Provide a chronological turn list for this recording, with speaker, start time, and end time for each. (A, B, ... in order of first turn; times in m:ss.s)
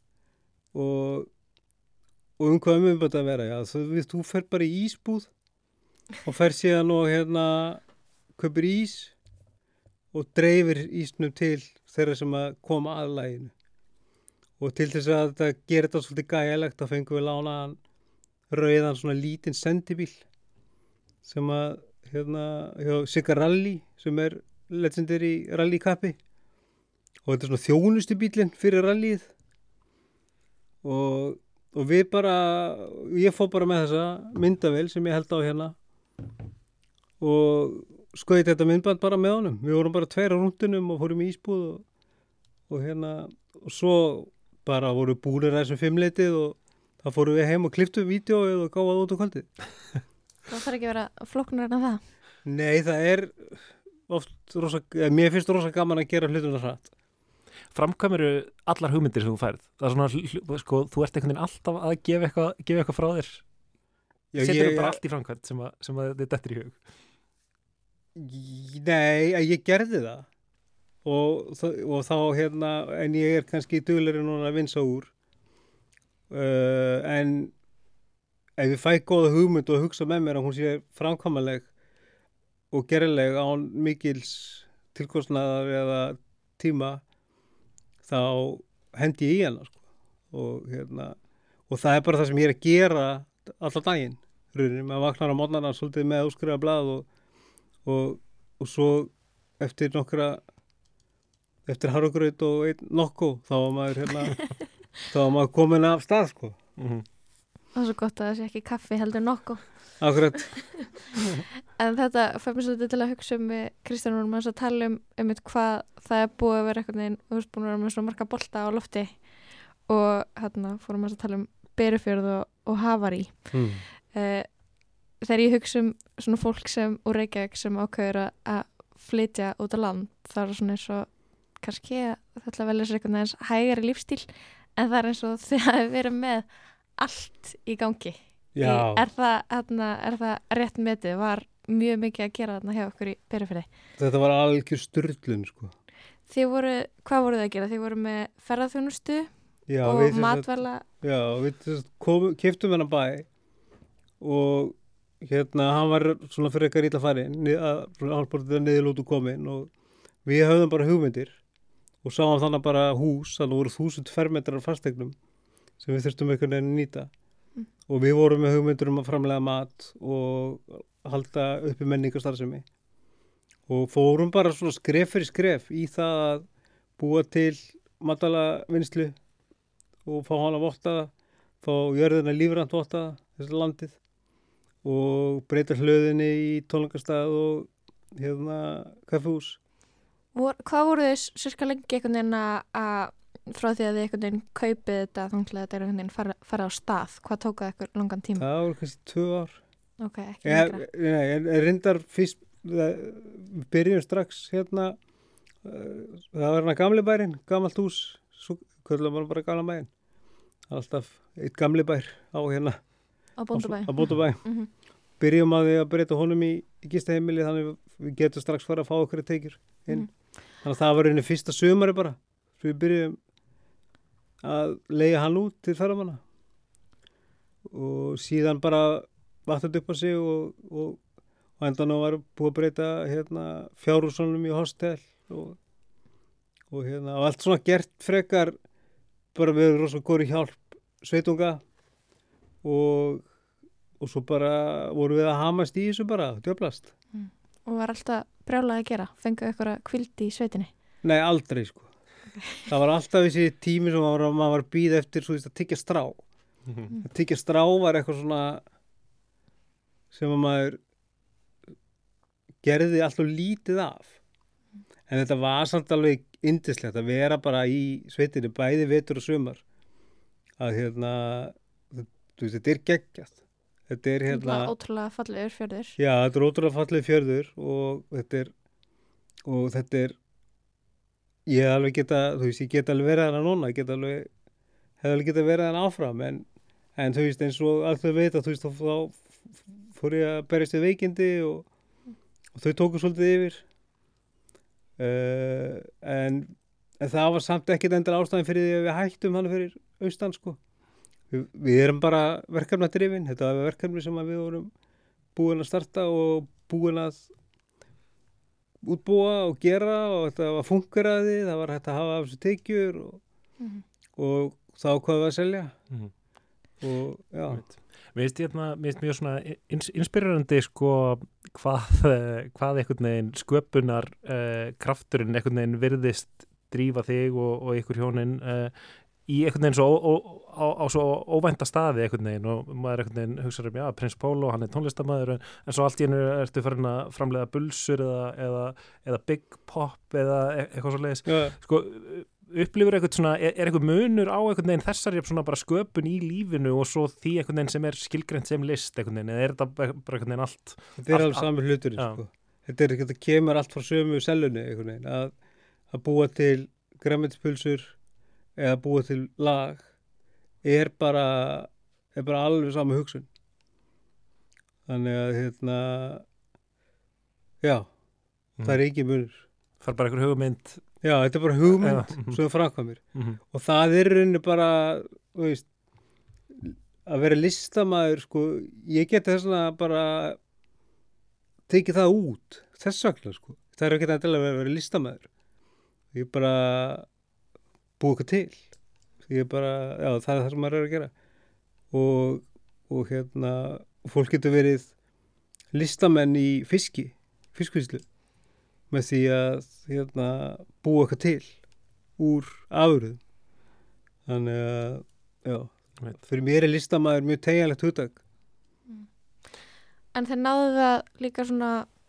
0:00.7-0:01.3 A
0:02.4-0:05.3 A
0:06.2-0:07.8 A
0:08.4-0:09.1 A
0:10.1-0:13.5 A
0:14.6-0:17.8 A
0:18.5-0:20.2 A
0:21.2-0:26.2 A
0:27.2-0:29.3 A
0:30.8-0:35.7 A
0:37.2-0:41.8 A
0:42.7-0:49.5 A
0:50.5-0:52.0 B
0:52.4-0:56.9 A
0:57.7-1:03.4 C
1:04.3-1:05.0 A
1:04.4-1:06.8 C
1:08.2-1:10.3 A
1:11.0-1:15.1 A
1:16.3-1:17.5 A
1:18.6-1:21.7 A
1:22.7-1:27.0 A
1:28.0-1:29.8 A
1:30.3-1:31.2 A
1:31.7-1:37.1 A
1:37.8-1:40.4 A
1:41.6-1:44.4 A
1:45.1-1:46.6 A
1:46.8-1:47.0 C
1:47.7-1:49.7 B
1:50.0-1:50.5 A
1:51.8-1:59.2 B
1:59.9-2:04.5 B
2:03.5-2:03.8 A
2:05.2-2:11.1 B
2:11.6-2:23.7 B
2:18.5-2:19.0 A
2:24.0-2:25.7 A
2:26.3-2:29.3 B
2:29.7-2:30.5 A
2:29.8-2:30.8 B
2:31.0-2:33.3 A
2:34.2-2:39.7 A
2:40.2-2:41.4 A
2:42.0-2:45.1 A
2:45.8-2:47.1 A
2:47.9-2:52.6 A
2:53.7-2:56.4 A
2:57.0-2:59.2 A
3:00.0-3:01.1 A
3:01.6-3:04.0 A
3:04.8-3:09.6 A
3:10.3-3:18.4 B
3:18.4-3:19.6 A
3:20.0-3:20.8 B
3:20.4-3:25.0 A
3:25.6-3:29.9 A
3:30.7-3:32.8 A
3:33.4-3:34.7 B
3:33.5-3:34.4 A
3:35.2-3:40.1 A
3:40.6-3:43.2 A
3:44.4-3:46.2 A
3:47.7-3:51.0 A
3:51.6-3:55.6 A
3:56.7-3:58.6 A
3:59.3-4:01.6 A
4:02.6-4:03.3 A
4:04.0-4:06.9 A
4:07.1-4:10.7 B
4:11.0-4:11.9 A
4:12.7-4:16.2 A
4:17.0-4:18.6 A
4:20.1-4:20.8 A
4:22.6-4:24.2 A
4:25.1-4:29.6 A
4:30.6-4:34.7 A
4:34.3-4:36.0 B
4:36.0-4:38.5 A
4:39.4-4:40.2 A
4:41.5-4:44.3 A
4:45.0-4:51.7 A
4:52.5-4:53.6 A
4:55.0-5:00.6 A
5:01.3-5:04.7 A
5:05.3-5:07.3 A
5:08.8-5:13.2 A
5:14.2-5:15.7 A
5:16.8-5:17.6 A
5:17.5-5:28.7 C
5:29.3-5:52.2 C
5:41.2-5:41.6 A
5:51.0-5:55.3 A
5:55.9-5:58.0 A
5:58.6-5:59.9 A
6:00.6-6:03.3 A
6:04.9-6:06.2 A
6:07.6-6:07.9 A
6:08.6-6:09.4 A
6:09.8-6:10.8 C
6:11.0-6:15.7 A
6:11.7-6:12.4 C
6:16.5-6:20.4 A
6:21.7-6:25.3 A
6:26.1-6:27.1 A
6:28.0-6:28.6 A
6:29.2-6:31.1 A
6:31.9-6:34.9 A
6:35.7-6:38.0 A
6:38.9-6:41.6 A
6:42.2-6:43.2 A
6:44.3-6:48.2 A
6:50.1-6:51.9 B